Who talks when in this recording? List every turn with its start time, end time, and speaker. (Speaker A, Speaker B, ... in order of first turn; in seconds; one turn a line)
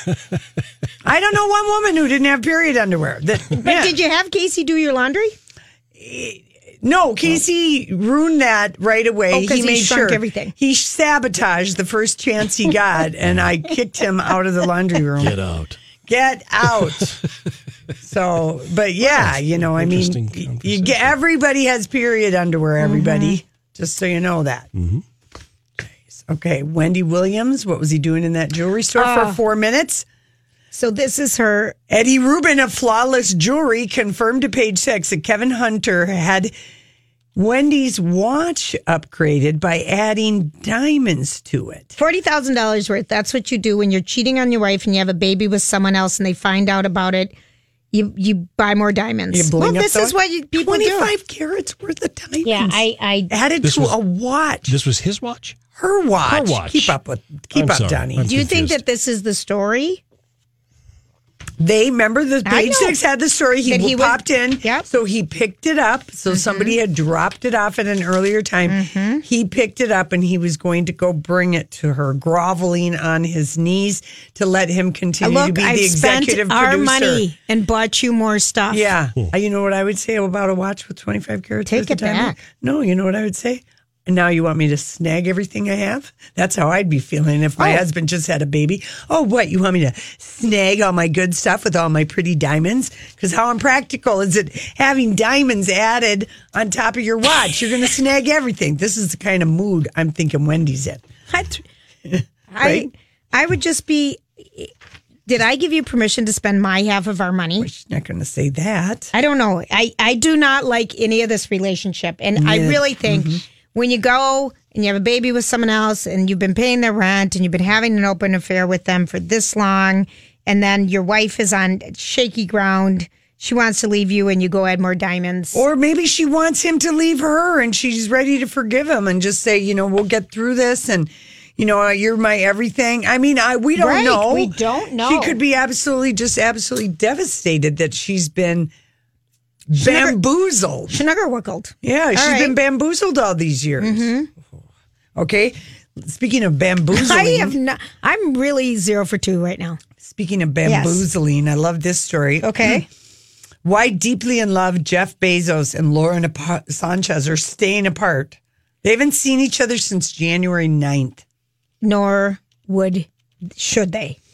Speaker A: 1.0-3.9
Speaker B: 3.5-5.3
Speaker A: 6.0-15.4
Speaker B: 9.3-10.5
Speaker C: 15.2-15.8
Speaker A: 16.1-17.2
Speaker A: 18.0-24.7
Speaker C: 19.0-21.1
Speaker B: 22.8-23.4
Speaker C: 24.7-25.0
Speaker A: 26.1-30.0
Speaker B: 29.0-29.4
Speaker B: 30.7-31.8
Speaker A: 31.9-36.5
Speaker A: 37.3-42.0
Speaker B: 42.0-47.3
Speaker B: 47.9-51.1
Speaker A: 49.3-54.8
Speaker B: 52.4-53.3
Speaker C: 53.6-54.0
Speaker C: 54.6-55.6
Speaker A: 55.8-58.3
Speaker C: 56.3-56.9
Speaker C: 57.5-58.8
Speaker B: 58.2-60.0
Speaker A: 61.6-77.2
Speaker B: 62.4-63.0
Speaker B: 63.6-64.8
Speaker B: 66.3-66.7
Speaker B: 68.7-69.2
Speaker B: 75.2-78.9
Speaker A: 78.7-101.0
Speaker B: 81.7-82.3
Speaker B: 87.6-87.8
Speaker B: 101.3-101.6
Speaker A: 102.0-102.9
Speaker B: 102.5-104.7
Speaker B: 105.3-107.7
Speaker A: 107.6-109.1
Speaker B: 109.1-125.6
Speaker A: 112.3-113.4
Speaker A: 125.5-138.7
Speaker B: 133.8-135.4
Speaker A: 139.7-141.0
Speaker B: 139.8-140.2
Speaker B: 140.9-142.6
Speaker A: 141.8-144.1
Speaker B: 143.8-144.3
Speaker A: 145.2-147.5
Speaker B: 146.9-149.8
Speaker A: 150.0-152.9
Speaker B: 150.6-151.0
Speaker B: 152.4-152.8
Speaker A: 153.6-161.2
Speaker B: 161.8-164.2